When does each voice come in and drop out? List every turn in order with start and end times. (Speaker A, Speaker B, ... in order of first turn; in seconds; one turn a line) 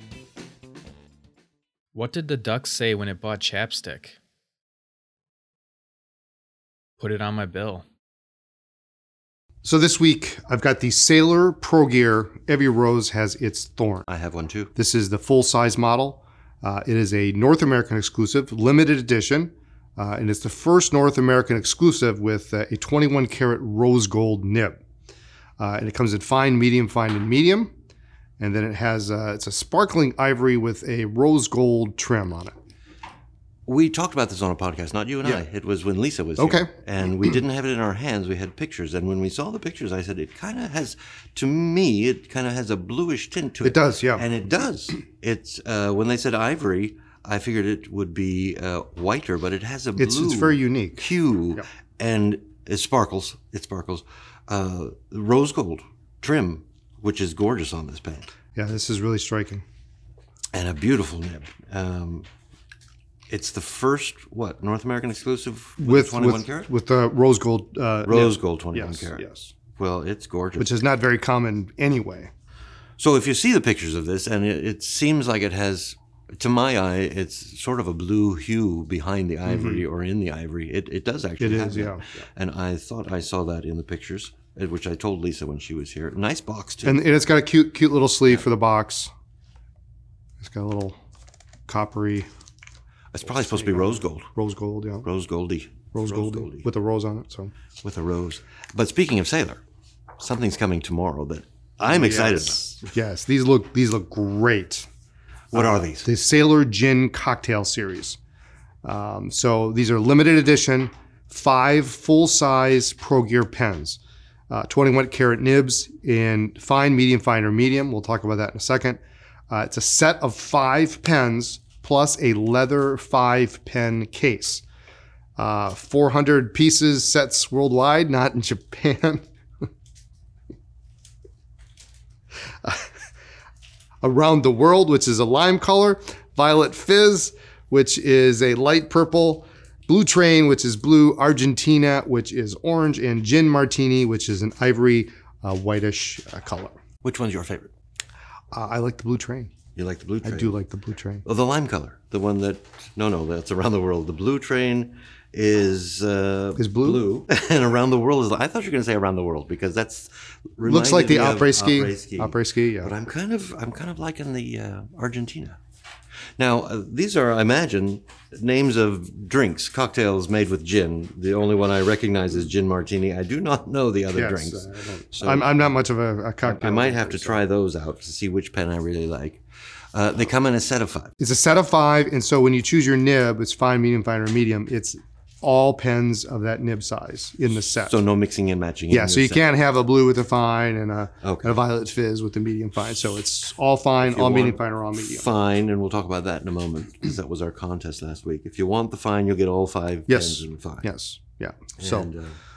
Speaker A: 1.9-4.2
Speaker A: 7.0-7.8
Speaker B: 9.6-14.1
Speaker C: 14.1-14.7
Speaker B: 14.7-24.8
Speaker B: 25.6-27.7
Speaker B: 28.4-32.5
Speaker C: 33.6-58.3
Speaker B: 36.4-36.7
Speaker B: 43.6-44.2
Speaker B: 50.0-51.6
Speaker B: 58.5-59.6
Speaker C: 60.5-62.2
Speaker C: 63.3-66.7
Speaker B: 65.8-69.5
Speaker C: 68.0-70.8
Speaker B: 70.6-72.3
Speaker C: 73.0-87.0
Speaker B: 79.5-79.8
Speaker B: 81.4-82.2
Speaker B: 86.8-89.1
Speaker B: 90.4-91.0
Speaker B: 91.7-92.3
Speaker C: 93.1-94.3
Speaker B: 93.3-95.1
Speaker C: 95.0-96.7
Speaker B: 95.9-97.5
Speaker C: 97.8-99.6
Speaker C: 100.2-102.9
Speaker B: 101.9-104.9
Speaker C: 105.5-106.1
Speaker B: 105.5-108.2
Speaker B: 108.8-114.0
Speaker B: 114.5-124.6
Speaker B: 125.4-129.3
Speaker B: 134.0-146.8
Speaker C: 147.0-147.7
Speaker B: 148.5-149.5
Speaker C: 149.8-150.6
Speaker B: 150.2-151.2
Speaker C: 151.2-165.6
Speaker B: 156.6-157.0
Speaker B: 160.6-162.9
Speaker C: 166.4-175.5
Speaker B: 174.1-177.4
Speaker C: 176.4-179.4
Speaker C: 179.9-181.1
Speaker B: 181.2-187.9
Speaker C: 187.9-189.4
Speaker B: 188.9-195.3
Speaker C: 191.2-191.6
Speaker C: 194.0-200.9
Speaker B: 200.1-202.1
Speaker C: 201.8-202.3